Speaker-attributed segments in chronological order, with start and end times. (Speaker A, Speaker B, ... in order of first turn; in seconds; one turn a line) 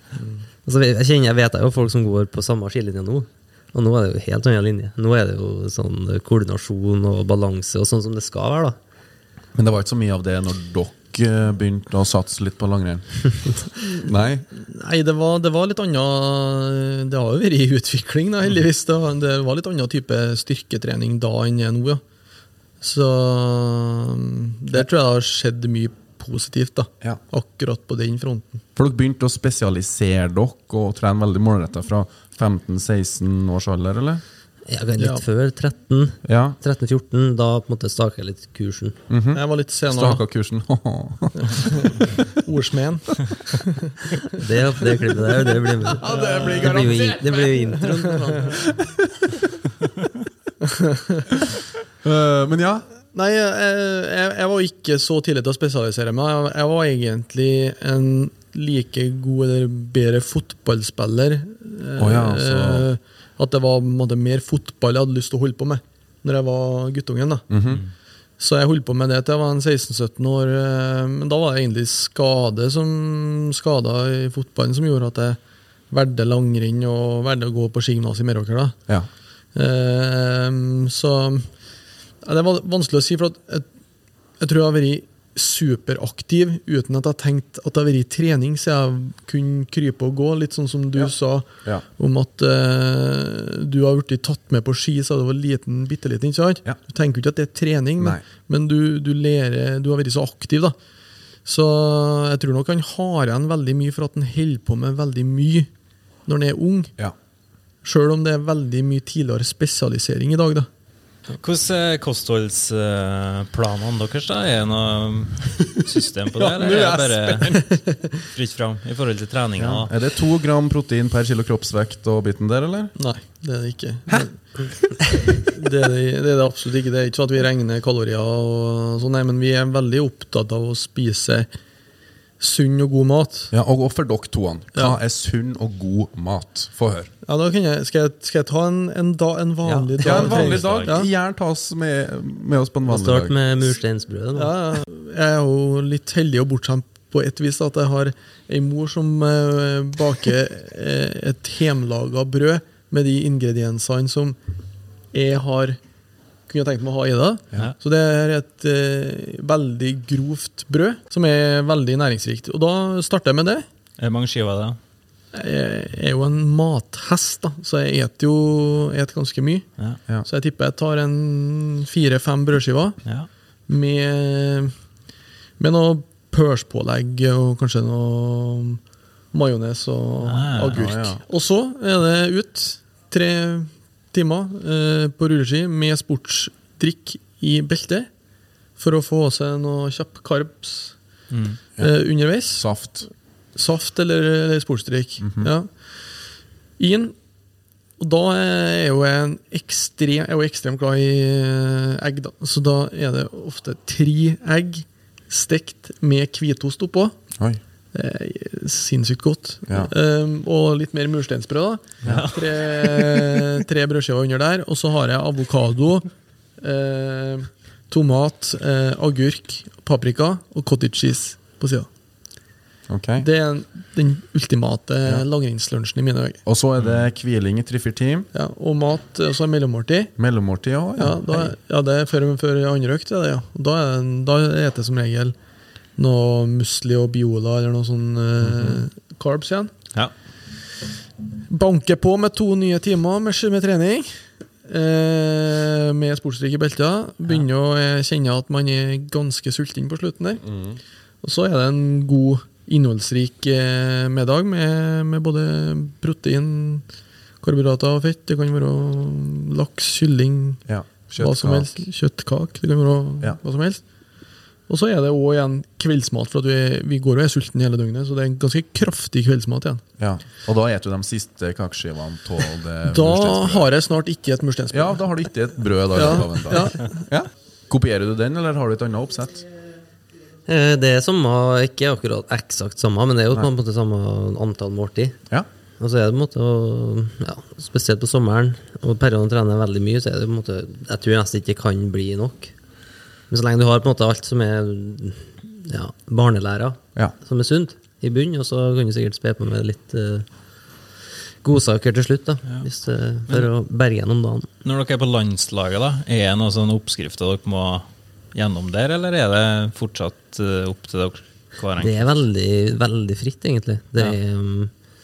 Speaker A: 0.2-0.5
Speaker B: 0.7-8.8
Speaker C: 9.6-14.5
Speaker A: 14.6-22.0
Speaker A: 22.8-28.6
Speaker C: 28.8-34.2
Speaker B: 34.7-39.0
Speaker A: 35.0-35.2
Speaker C: 36.2-36.6
Speaker C: 39.1-42.2
Speaker A: 39.3-40.2
Speaker A: 41.4-44.2
Speaker B: 44.3-48.6
Speaker C: 46.0-47.7
Speaker A: 46.1-46.8
Speaker C: 48.5-49.4
Speaker A: 50.6-51.4
Speaker C: 52.0-52.9
Speaker A: 53.1-67.5
Speaker C: 62.0-62.9
Speaker C: 67.5-67.8
Speaker A: 68.4-75.4
Speaker A: 75.9-78.8
Speaker A: 79.5-81.5
Speaker A: 82.2-83.7
Speaker A: 84.4-100.8
Speaker C: 98.0-98.2
Speaker A: 101.5-105.7
Speaker A: 106.3-106.9
Speaker A: 107.8-110.7
Speaker D: 111.4-119.9
Speaker C: 116.4-117.7
Speaker C: 119.6-123.0
Speaker A: 123.0-124.3
Speaker C: 124.1-124.9
Speaker A: 125.4-131.5
Speaker A: 132.4-133.5
Speaker C: 133.5-137.1
Speaker A: 137.2-141.1
Speaker D: 139.7-141.0
Speaker C: 140.0-143.4
Speaker B: 142.8-144.6
Speaker A: 144.4-154.4
Speaker A: 155.1-155.8
Speaker A: 156.5-163.7
Speaker D: 164.0-164.8
Speaker A: 165.3-169.7
Speaker A: 170.2-173.0
Speaker A: 173.7-174.7
Speaker A: 175.6-178.8
Speaker A: 179.3-188.1
Speaker D: 180.2-180.8
Speaker C: 180.7-181.2
Speaker A: 188.8-191.0
Speaker D: 191.3-191.6
Speaker A: 191.8-192.7
Speaker C: 192.5-193.1
Speaker A: 193.6-195.8
Speaker C: 195.2-195.5
Speaker A: 196.8-197.2
Speaker A: 198.0-207.2
Speaker A: 207.9-216.1
Speaker D: 212.1-213.5
Speaker A: 216.6-221.9
Speaker C: 222.9-223.3
Speaker A: 223.2-226.4
Speaker C: 226.5-228.3
Speaker A: 228.3-230.1
Speaker C: 230.2-231.5
Speaker A: 231.0-235.4
Speaker A: 236.0-239.7
Speaker C: 238.5-238.8
Speaker A: 241.5-250.4
Speaker C: 250.4-250.8
Speaker A: 251.2-256.9
Speaker A: 257.4-260.6
Speaker C: 260.7-261.8
Speaker A: 261.2-263.8
Speaker A: 264.7-269.8
Speaker C: 270.0-273.7
Speaker A: 272.9-275.0
Speaker C: 274.7-279.4
Speaker A: 275.9-277.0
Speaker B: 280.5-285.2
Speaker B: 285.8-292.5
Speaker B: 293.3-300.3
Speaker B: 301.4-304.5
Speaker D: 304.6-312.2
Speaker B: 311.8-314.7